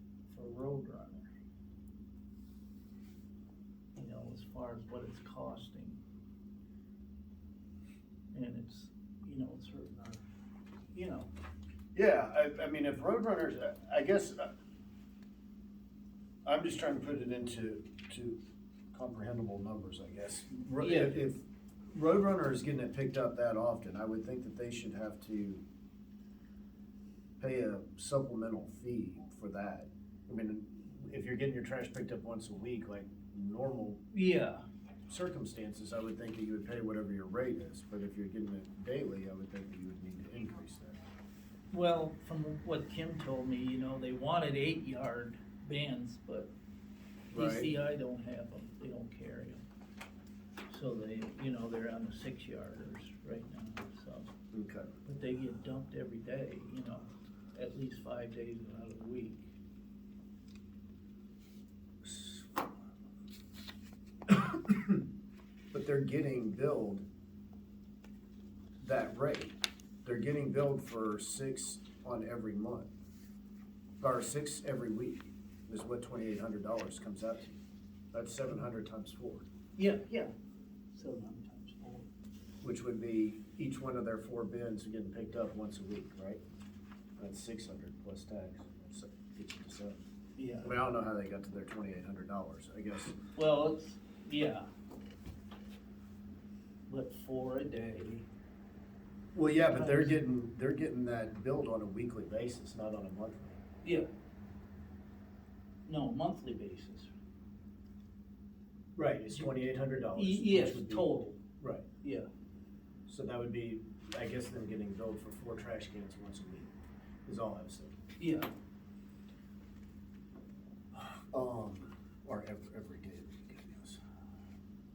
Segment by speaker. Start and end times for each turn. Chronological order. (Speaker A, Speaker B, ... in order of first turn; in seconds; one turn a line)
Speaker A: 0.3-1.3
Speaker A: 3.9-6.0
Speaker A: 8.3-10.2
Speaker A: 10.9-11.3
Speaker B: 11.9-14.5
Speaker B: 16.4-18.4
Speaker B: 18.9-25.6
Speaker A: 20.8-21.2
Speaker B: 27.4-34.0
Speaker A: 34.1-34.6
Speaker B: 35.1-41.0
Speaker A: 41.7-46.5
Speaker A: 47.3-49.6
Speaker B: 47.3-47.7
Speaker A: 50.7-54.3
Speaker B: 54.5-54.9
Speaker A: 55.0-59.5
Speaker B: 62.0-62.6
Speaker B: 64.3-65.0
Speaker B: 65.7-67.0
Speaker B: 68.8-72.9
Speaker B: 74.0-77.6
Speaker B: 78.1-79.5
Speaker A: 79.8-80.3
Speaker A: 80.9-82.1
Speaker B: 82.6-86.4
Speaker B: 87.2-90.0
Speaker A: 90.4-90.8
Speaker B: 90.6-93.1
Speaker A: 93.3-94.7
Speaker A: 96.9-98.3
Speaker B: 99.3-103.6
Speaker A: 99.7-100.2
Speaker A: 103.8-104.1
Speaker A: 105.8-107.1
Speaker B: 109.0-111.8
Speaker A: 109.3-111.4
Speaker A: 112.0-112.3
Speaker B: 113.1-116.7
Speaker B: 117.2-118.0
Speaker A: 118.2-118.5
Speaker B: 120.9-124.0